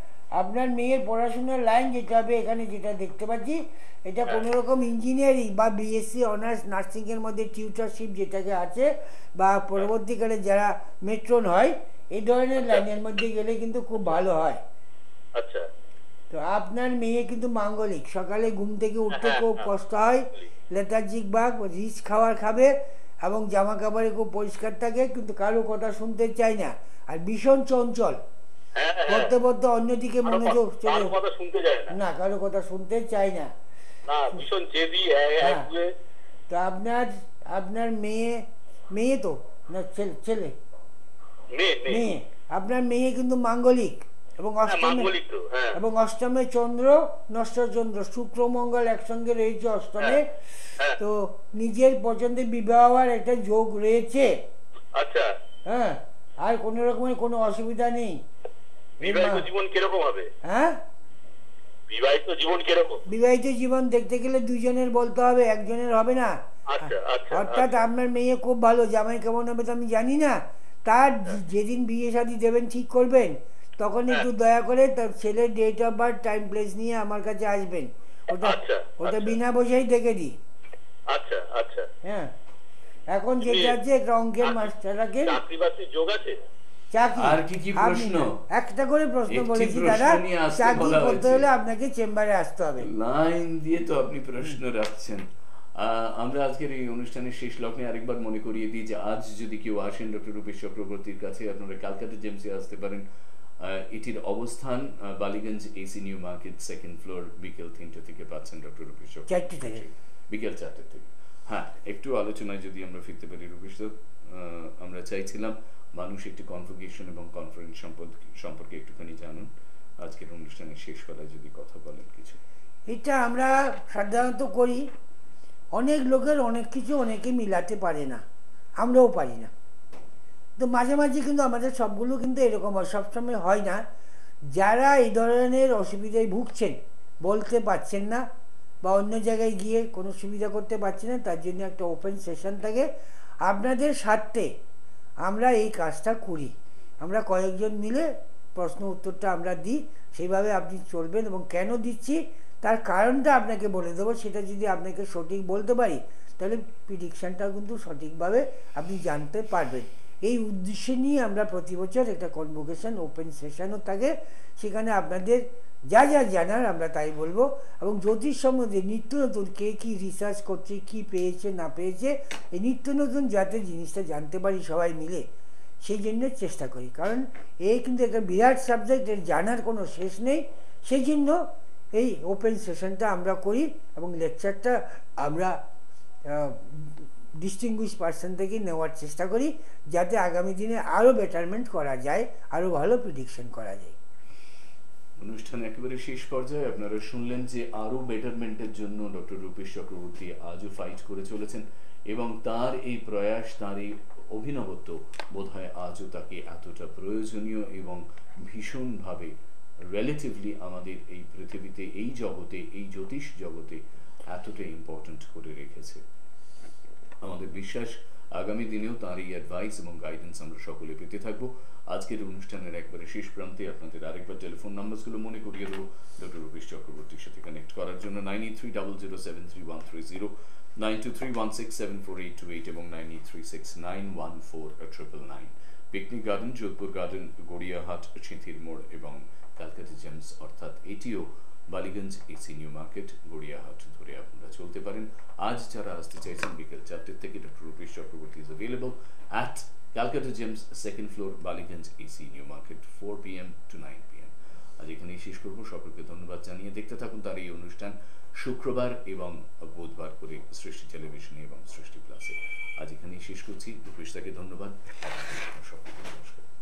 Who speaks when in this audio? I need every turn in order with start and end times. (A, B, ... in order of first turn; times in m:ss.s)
0:00.4-0:14.6 A
0:15.4-0:15.6 B
0:16.3-0:28.2 A
0:19.2-0:19.6 B
0:28.8-0:29.3 B
0:29.1-0:31.2 A
0:30.2-0:32.0 B
0:31.9-0:33.5 A
0:34.1-0:35.9 B
0:35.4-0:35.7 A
0:36.5-0:40.6 A
0:41.5-0:42.1 B
0:41.9-0:45.1 A
0:44.7-0:45.8 B
0:45.7-0:50.4 A
0:51.0-0:54.4 A
0:55.0-0:55.3 B
0:55.7-0:58.2 A
0:59.0-0:59.5 A
0:59.0-1:00.3 B
1:00.4-1:00.8 A
1:01.9-1:03.0 B
1:03.1-1:20.4 A
1:06.7-1:07.8 B
1:18.4-1:19.4 B
1:21.1-1:21.9 B
1:22.0-1:22.3 A
1:23.1-1:25.4 A
1:23.4-1:23.8 B
1:24.4-1:24.7 B
1:25.2-1:26.4 B
1:26.9-1:32.9 A
1:27.2-1:28.4 C
1:29.3-1:31.5 C
1:32.8-1:43.0 C
1:43.6-1:59.5 C
1:49.3-1:49.8 A
2:00.0-2:02.4 C
2:02.9-2:04.9 A
2:05.7-2:08.2 A
2:08.8-2:09.5 A
2:10.6-2:13.8 A
2:14.6-2:18.3 A
2:18.8-2:22.9 A
2:23.4-2:24.5 A
2:25.2-2:55.3 A
2:55.8-3:01.4 A
3:02.0-3:05.6 A
3:06.3-3:14.0 A
3:15.2-3:29.3 C
3:29.9-3:36.0 C
3:37.2-4:26.5 C